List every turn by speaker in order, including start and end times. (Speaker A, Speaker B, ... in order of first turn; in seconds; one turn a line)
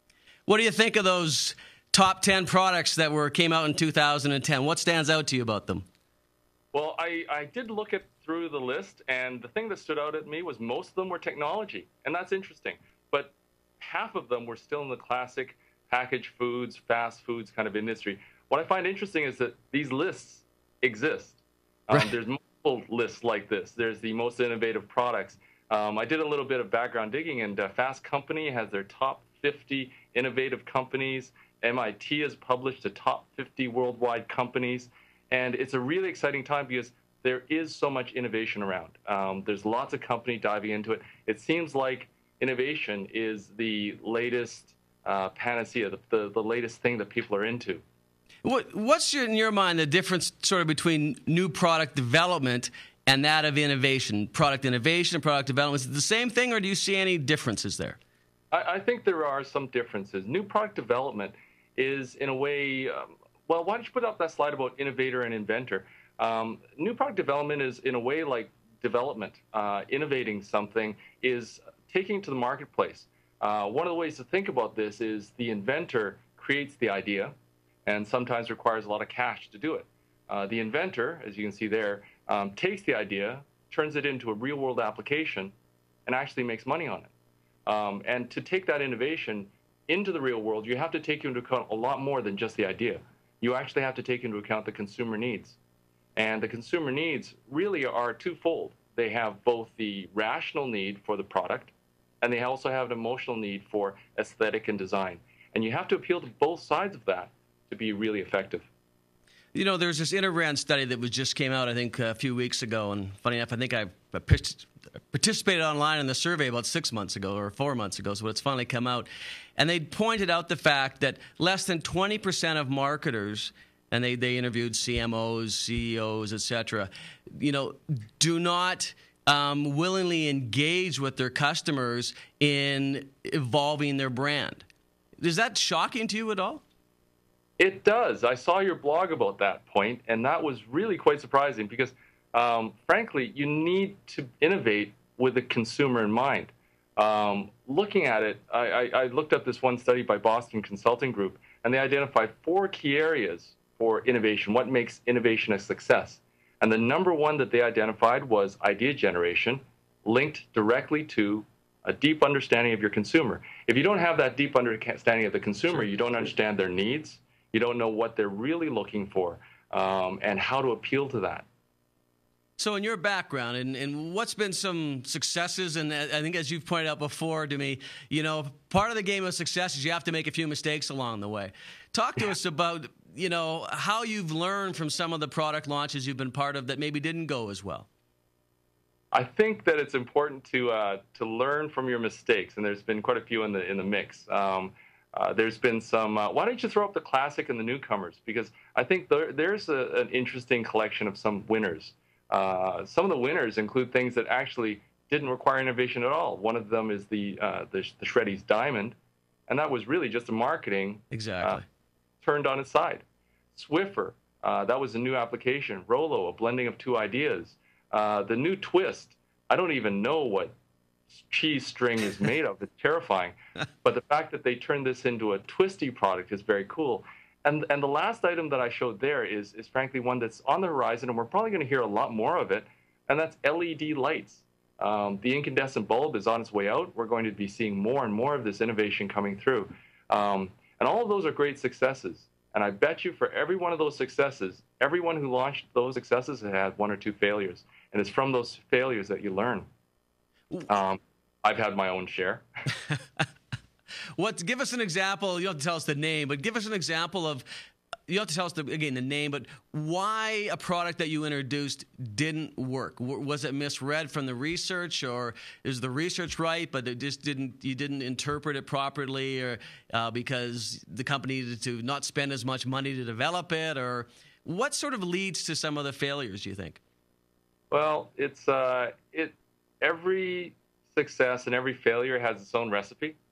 Speaker A: 0.5-5.8
Speaker B: 6.7-47.8
Speaker A: 48.4-58.0
Speaker B: 58.5-77.3
Speaker B: 77.8-85.5
Speaker B: 86.0-87.1
Speaker B: 87.7-95.6
Speaker B: 96.2-108.7
Speaker A: 109.5-134.6
Speaker A: 135.2-136.6
Speaker B: 137.6-171.4
Speaker A: 172.6-187.9
Speaker B: 189.1-208.9
Speaker B: 209.5-211.6
Speaker A: 211.1-211.6
Speaker B: 212.2-220.5
Speaker B: 221.1-249.7
Speaker B: 250.7-252.4
Speaker A: 254.2-257.5
Speaker A: 258.1-276.8
Speaker B: 277.7-283.2